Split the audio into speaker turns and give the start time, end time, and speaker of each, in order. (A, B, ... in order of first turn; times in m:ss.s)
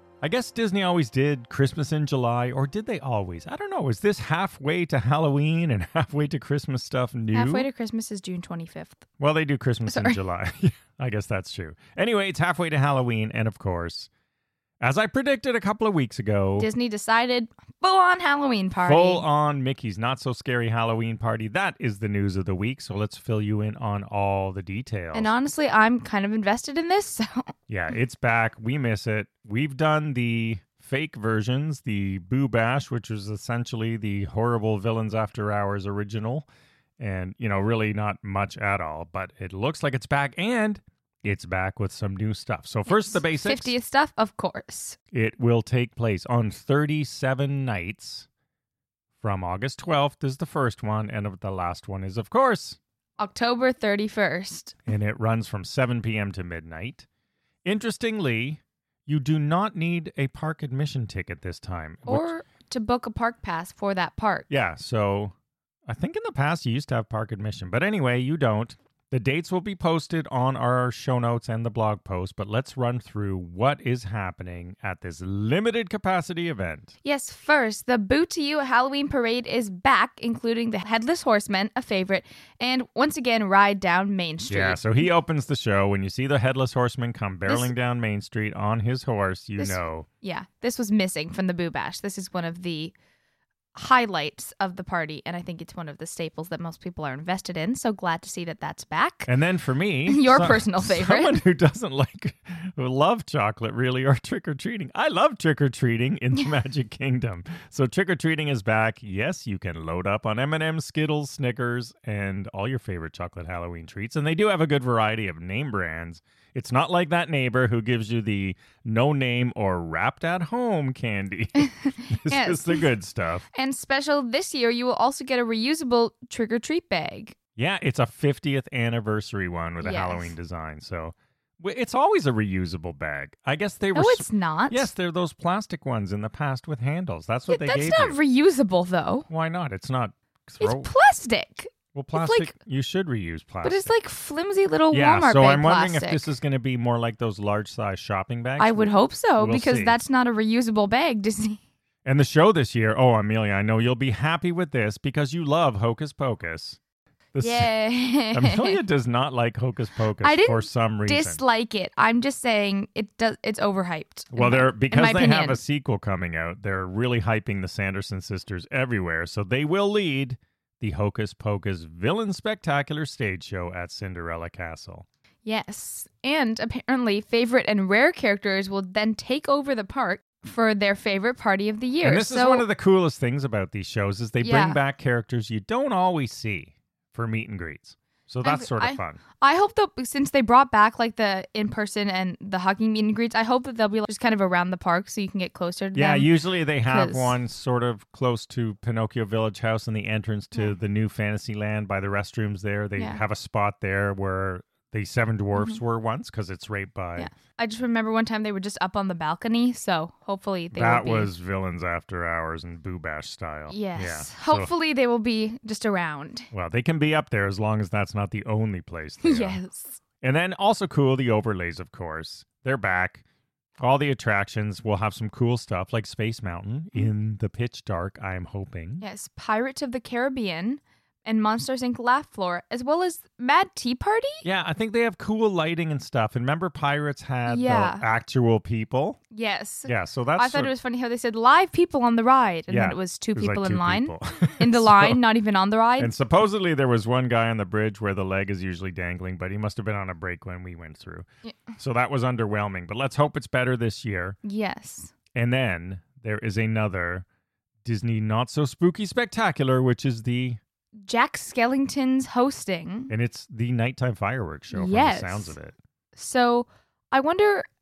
0:00.2-0:07.7 A
0:07.3-0:09.0 B
0:09.2-0:14.1 A
0:09.9-0:10.2 B
0:14.8-0:16.7 A
0:16.6-0:19.2 B
0:18.8-0:25.3 A
0:25.1-0:27.5 B
0:27.7-0:36.5 A
0:37.0-0:43.7 A
0:42.9-0:45.0 B
0:45.1-0:48.3 A
0:49.2-0:52.8 A
0:53.2-0:54.8 B
0:54.8-0:57.1 A
0:57.6-1:02.3 A
1:02.0-1:04.5 B
1:04.5-1:05.3 A
1:05.9-1:16.9 A
1:17.0-1:25.0 B
1:24.5-1:30.0 A
1:27.5-1:27.7 B
1:29.6-1:32.9 B
1:33.7-1:39.3 B
1:39.3-2:03.4 A
1:40.0-1:41.4 B
2:01.6-2:02.9 B
2:03.5-2:07.4 B
2:07.6-2:18.2 A
2:09.8-2:10.3 B
2:13.9-2:14.9 B
2:17.5-2:19.3 B
2:19.3-2:20.9 A
2:20.6-2:22.5 B
2:21.9-2:23.9 A
2:23.6-2:26.3 B
2:24.9-2:30.0 A
2:28.6-2:31.6 B
2:32.0-2:36.8 A
2:37.3-2:37.7 A
2:37.4-2:38.8 B
2:38.3-2:41.4 A
2:40.2-2:45.6 B
2:44.3-2:55.0 A
2:55.4-3:02.7 B
3:02.0-3:09.2 A
3:04.4-3:04.8 B
3:08.4-3:17.4 B
3:15.9-3:27.3 A
3:25.5-3:25.8 B
3:27.2-3:31.3 B
3:30.7-3:34.7 A
3:33.7-3:36.5 B
3:36.5-3:39.6 A
3:39.2-3:40.0 B
3:40.2-3:43.2 A
3:43.8-3:49.0 A
3:49.0-3:54.4 B
3:54.4-3:59.2 A
3:57.5-3:58.0 B
3:59.3-4:06.1 B
3:59.9-4:00.7 A
4:02.7-4:05.2 A
4:06.0-4:14.4 A
4:14.4-4:15.1 B
4:15.3-4:17.2 A
4:17.8-4:20.6 A
4:21.0-4:23.1 B
4:23.1-4:25.8 A
4:24.7-4:25.6 B
4:26.2-4:27.7 B